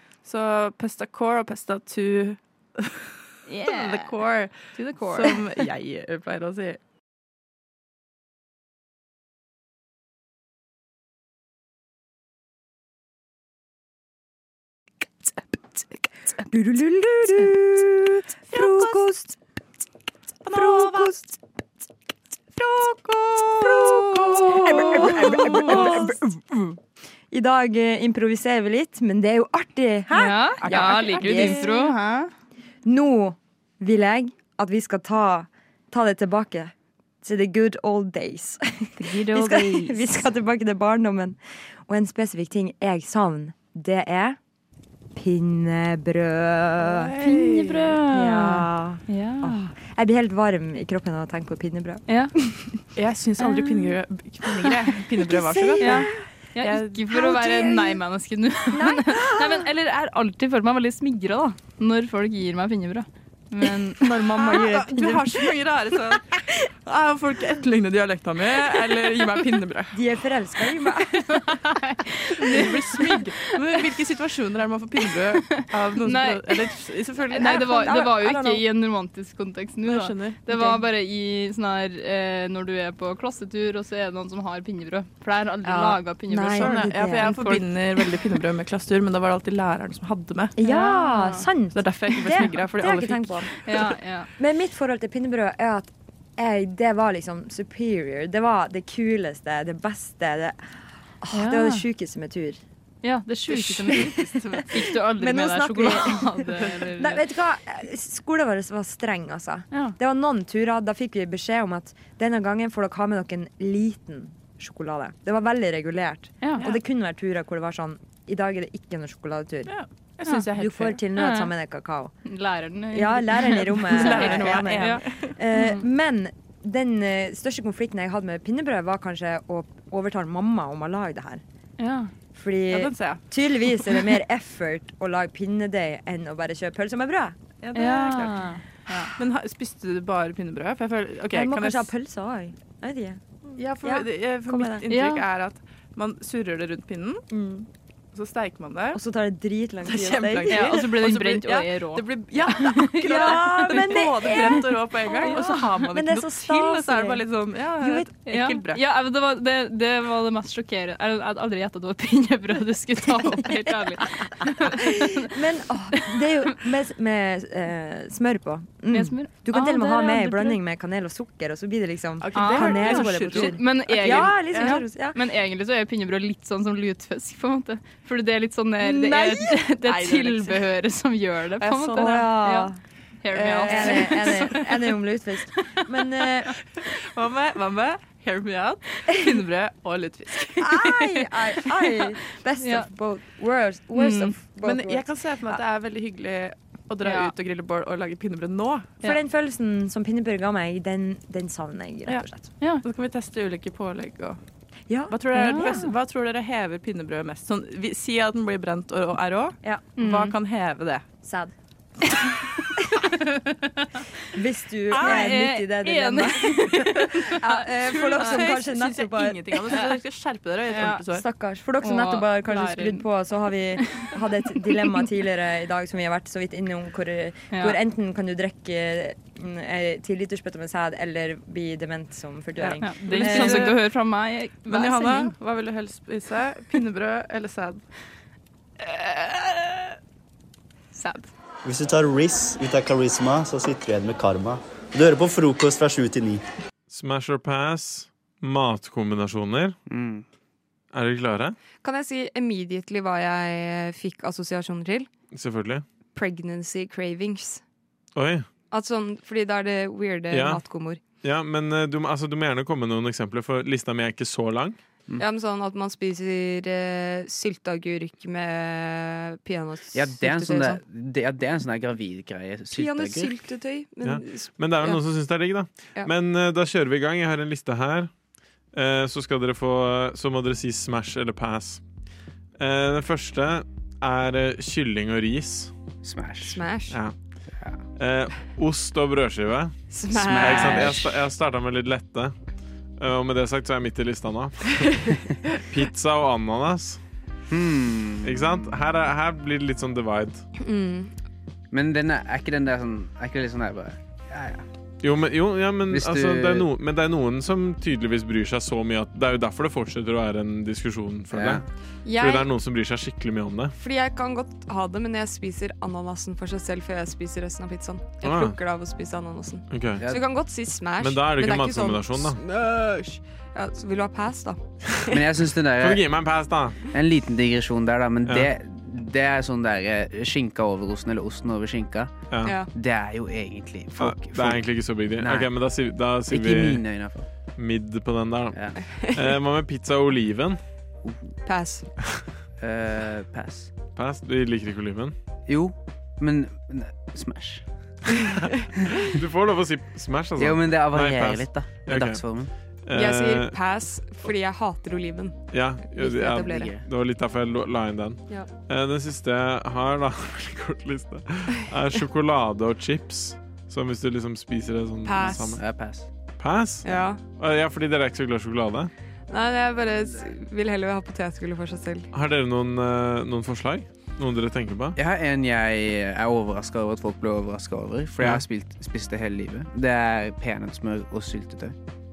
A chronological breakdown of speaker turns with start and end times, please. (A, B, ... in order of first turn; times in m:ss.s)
0:00.2-0:03.1 A
0:03.5-0:04.2 B
0:03.6-0:06.8 A
0:04.7-0:05.5 B
0:16.5-0:19.4 C
0:18.5-0:19.0 A
0:20.4-0:21.2 A
0:20.5-0:21.3 C
0:22.6-0:26.1 A
0:23.6-0:26.8 C
0:24.7-0:26.0 B
0:27.3-0:31.7 C
0:30.1-0:32.3 B
0:30.6-0:31.9 A
0:32.8-0:44.4 C
0:39.0-0:40.2 B
0:45.1-0:47.1 C
0:46.8-0:48.0 A
0:47.2-0:49.7 B
0:48.1-0:52.7 C
0:52.1-0:52.3 B
0:52.9-0:56.1 A
0:53.4-0:54.0 B
0:55.2-0:56.2 C
0:55.8-1:04.0 B
0:56.6-0:57.1 A
0:57.1-0:58.0 C
0:58.7-0:59.6 C
1:04.0-1:05.5 C
1:04.2-1:09.9 A
1:09.9-1:11.4 C
1:11.3-1:13.9 B
1:12.4-1:17.9 A
1:15.5-1:16.8 B
1:17.3-1:27.6 B
1:17.3-1:18.6 C
1:19.8-1:20.5 A
1:25.6-1:27.4 C
1:26.5-1:30.5 A
1:30.6-1:33.5 C
1:30.6-1:31.5 B
1:31.7-1:33.9 A
1:32.3-1:32.5 B
1:33.6-1:34.3 B
1:34.4-1:40.7 C
1:41.2-1:42.6 C
1:41.3-1:41.8 B
1:43.0-1:47.2 B
1:43.5-1:59.7 C
1:56.4-1:56.7 B
1:59.7-2:01.0 A
2:00.2-2:00.5 B
2:00.5-2:02.1 C
2:01.2-2:01.5 B
2:02.2-2:05.8 B
2:02.9-2:11.4 C
2:03.9-2:05.4 A
2:11.8-2:12.1 B
2:12.3-2:17.4 C
2:12.7-2:13.2 A
2:17.6-2:18.5 A
2:17.7-2:19.1 B
2:19.2-2:21.9 A
2:21.3-2:23.2 C
2:23.5-2:27.2 A
2:23.8-2:24.8 C
2:24.9-2:25.2 B
2:27.3-2:27.6 C
2:28.1-2:29.0 A
2:28.9-2:30.9 C
2:29.8-2:38.8 A
2:30.5-2:35.8 B
2:33.1-2:37.2 C
2:37.8-2:38.1 C
2:38.2-2:45.3 B
2:44.8-2:55.2 C
2:45.9-2:46.2 B
2:48.9-2:50.6 B
2:52.2-2:54.9 A
2:52.3-3:02.7 B
2:58.9-3:00.6 A
3:01.6-3:02.3 A
3:02.0-3:02.8 C
3:03.2-3:04.7 B
3:03.3-3:04.9 A
3:03.6-3:06.5 C
3:07.1-3:10.6 A
3:10.6-3:15.1 C
3:12.6-3:12.9 B
3:14.0-3:14.3 B
3:14.5-3:19.1 A
3:17.0-3:17.3 B
3:19.0-3:22.5 C
3:22.1-3:24.4 A
3:24.9-3:25.6 C
3:25.1-3:31.1 A
3:25.3-3:25.9 B
3:29.6-3:29.9 C
3:30.0-3:30.3 B
3:31.2-3:31.5 C
3:34.3-3:39.5 C
3:34.9-3:35.4 A
3:34.9-3:38.5 B
3:37.4-3:41.2 A
3:39.7-3:40.0 B
3:40.7-3:41.1 B
3:41.2-3:53.7 C
3:41.8-3:43.0 B
3:47.5-3:47.8 B
3:52.6-3:53.9 A
3:52.8-3:55.3 B
3:54.6-3:57.8 A
4:00.9-4:01.3 B
4:01.6-4:06.4 D
4:06.9-4:09.7 E
4:09.9-4:10.2 F
4:10.9-4:11.6 E
4:11.8-4:15.1 G
4:15.3-4:15.8 E
4:16.1-4:17.6 G
4:18.1-4:18.4 E
4:18.7-4:21.0 G
4:20.3-4:20.6 E
4:21.2-4:24.8 E
4:25.2-4:30.8 G
4:29.9-4:33.4 F
4:32.7-4:35.0 G
4:34.0-4:38.1 E
4:38.7-4:41.8 E
4:42.6-4:45.7 E
4:46.0-4:46.6 F
4:46.4-4:47.0 G
4:46.9-4:47.1 E
4:48.0-4:49.7 E
4:49.9-4:51.1 G
4:50.1-4:51.0 F
4:50.3-4:52.3 E
4:53.0-4:54.8 E
4:55.7-4:57.0 E
4:57.5-4:58.7 F
4:58.2-5:00.4 E
5:00.6-5:01.1 G
5:01.7-5:04.6 F
5:05.0-5:11.6 E
5:05.9-5:06.7 F
5:11.3-5:11.6 F
5:12.0-5:12.5 G
5:12.2-5:13.7 E
5:13.8-5:24.6 G
5:18.2-5:18.6 E
5:19.7-5:20.0 E
5:21.0-5:22.4 E
5:25.1-5:26.0 F
5:25.8-5:26.8 E
5:26.9-5:32.1 F
5:32.3-5:32.6 E
5:32.4-5:32.7 G
5:32.7-5:34.6 F
5:34.0-5:36.8 E
5:35.2-5:35.5 F
5:36.3-5:37.2 F
5:37.6-5:38.6 E
5:38.8-5:39.3 G
5:39.1-5:40.6 E
5:41.4-5:41.8 G
5:42.6-5:43.7 F
5:44.0-5:45.1 E
5:45.5-5:47.6 F
5:49.1-5:52.2 E
5:50.4-5:52.5 F
5:52.8-5:53.6 E
5:52.9-5:56.8 G
5:55.5-6:05.6 E
5:56.5-5:56.8 F
6:05.0-6:05.6 G
6:05.6-6:06.1 F
6:06.4-6:08.9 E
6:06.8-6:07.2 G
6:09.3-6:12.1 G
6:12.1-6:15.0 E
6:15.0-6:21.8 F
6:18.2-6:18.4 E